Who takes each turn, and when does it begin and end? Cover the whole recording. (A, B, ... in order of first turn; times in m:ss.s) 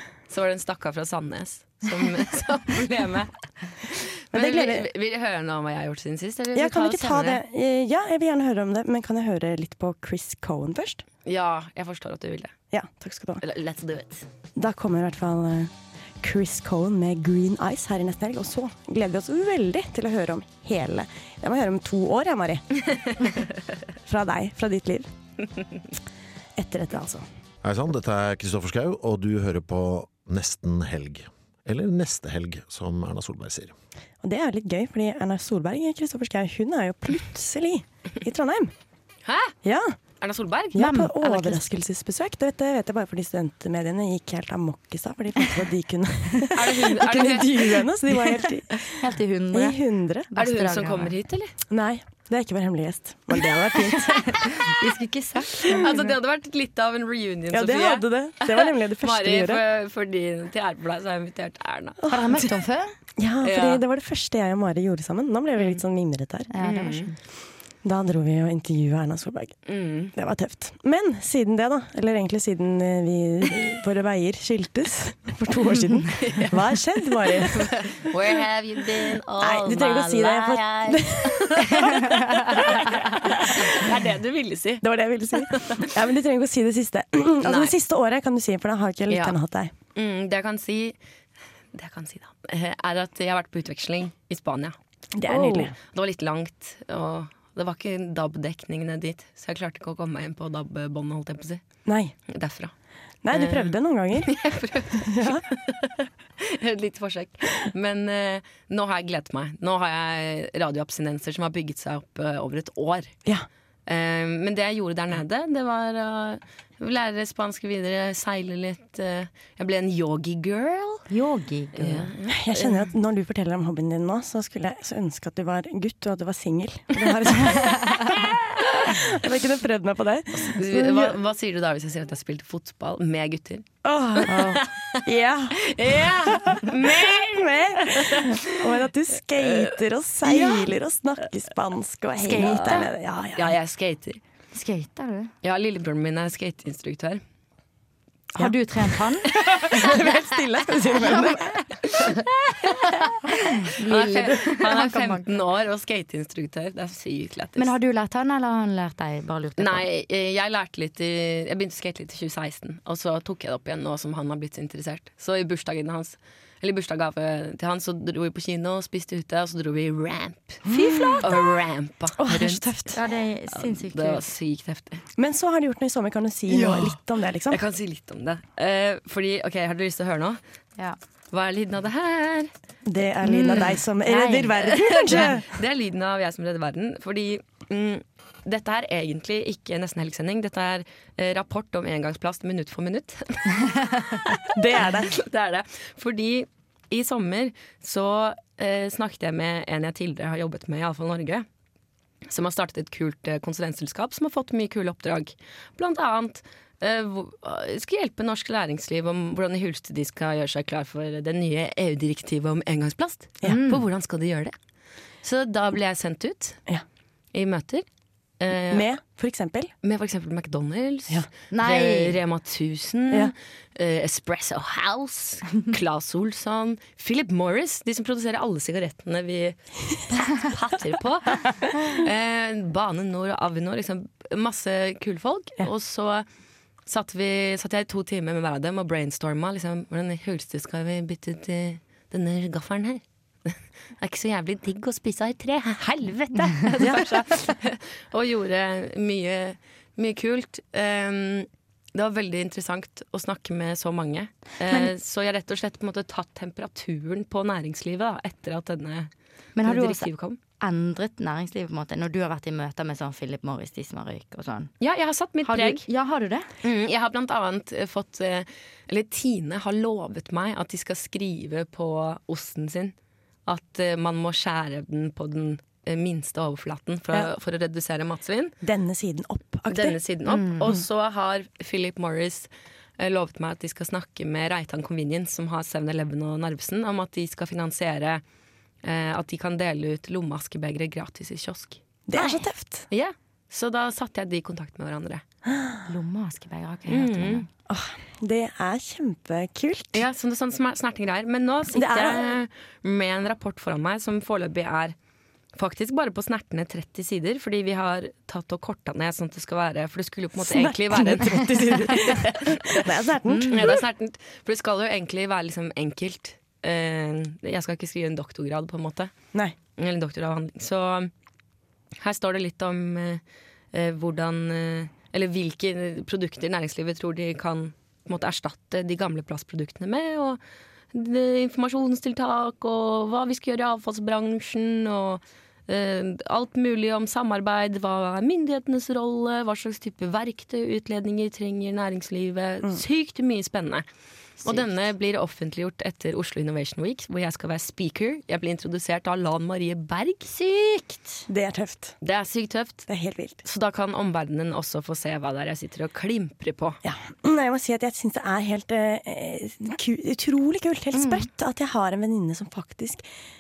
0:00.3-0:07.4 A
0:04.3-0:04.9 B
0:06.5-0:11.0 B
0:11.2-0:12.5 A
0:12.7-0:13.4 B
0:13.4-0:14.3 A
0:14.6-0:22.6 B
0:24.1-0:25.1 B
0:26.6-0:27.2 B
0:27.6-0:33.7 C
0:34.2-0:38.7 B
0:39.3-0:39.5 A
0:39.6-0:40.0 B
0:40.2-0:41.1 A
0:40.7-0:48.9 B
0:40.8-0:41.6 D
0:46.5-0:47.9 A
0:48.9-0:49.8 D
0:49.5-0:50.3 B
0:50.3-0:51.1 D
0:50.4-0:51.5 A
0:51.7-0:54.4 B
0:53.9-0:55.8 D
0:55.4-1:02.0 A
0:55.7-0:56.1 B
0:57.5-0:59.6 B
1:02.0-1:02.3 B
1:02.1-1:02.9 D
1:03.2-1:06.5 B
1:03.4-1:03.8 A
1:06.5-1:07.2 D
1:06.6-1:07.1 A
1:07.8-1:18.0 B
1:09.7-1:10.1 A
1:16.2-1:16.6 A
1:17.3-1:25.9 A
1:19.4-1:22.8 B
1:24.8-1:29.7 B
1:27.4-1:27.8 A
1:29.1-1:29.4 A
1:30.0-1:31.0 A
1:31.7-1:41.6 A
1:35.2-1:35.7 B
1:41.9-1:42.1 B
1:42.3-1:42.7 A
1:43.2-1:44.4 B
1:43.3-1:53.2 A
1:44.9-1:45.4 B
1:53.9-2:01.1 A
2:01.1-2:02.1 D
2:01.8-2:02.9 A
2:02.3-2:08.3 B
2:08.8-2:11.2 B
2:10.3-2:14.8 A
2:13.8-2:23.6 B
2:15.7-2:18.8 A
2:19.4-2:19.7 A
2:20.2-2:20.7 A
2:22.2-2:22.9 D
2:22.4-2:24.2 A
2:24.5-2:25.3 D
2:25.4-2:27.2 A
2:28.4-2:29.3 D
2:29.3-2:30.1 A
2:29.4-2:31.6 B
2:32.0-2:32.9 A
2:33.5-2:35.3 D
2:33.8-2:37.7 A
2:37.6-2:39.8 D
2:39.6-2:52.7 A
2:50.7-2:51.3 B
2:52.2-2:53.0 B
2:52.9-2:54.2 D
2:53.6-2:55.0 A
2:55.2-2:57.6 B
2:56.5-3:00.4 A
3:01.3-3:02.5 A
3:02.9-3:05.5 B
3:03.2-3:04.2 D
3:03.4-3:21.5 A
3:14.5-3:15.2 B
3:22.3-3:34.5 A
3:33.4-3:33.8 D
3:35.2-3:36.6 A
3:37.3-3:37.8 A
3:38.4-3:38.9 A
3:38.7-3:39.7 B
3:39.8-3:56.3 A
3:41.5-3:42.2 D
3:56.9-4:20.4 A
4:19.6-4:20.1 D
4:20.6-4:24.7 D
4:24.8-4:25.9 A
4:25.4-4:26.5 D
4:26.6-4:33.0 A
4:33.5-4:38.6 A
4:38.6-4:40.0 B
4:39.7-4:48.2 A
4:40.3-4:40.7 D
4:48.8-4:51.8 A
4:52.1-4:52.9 B
4:52.9-4:55.2 A
4:55.9-4:57.5 D
4:56.9-4:57.4 A
4:57.7-5:00.1 B
4:59.9-5:05.0 A
5:01.7-5:02.4 B
5:05.6-5:12.9 A
5:10.4-5:13.8 B
5:13.3-5:13.8 D
5:13.5-5:19.1 A
5:19.8-5:21.1 A
5:22.0-5:23.2 A
5:23.7-5:30.4 A
5:30.9-5:43.8 A
5:44.4-5:44.8 D
5:44.4-5:50.3 A
5:50.3-5:51.2 D
5:51.3-5:52.0 B
5:52.0-5:52.9 A
5:52.9-5:53.4 B
5:53.4-5:56.8 A
5:56.8-6:03.1 B
6:00.9-6:01.3 D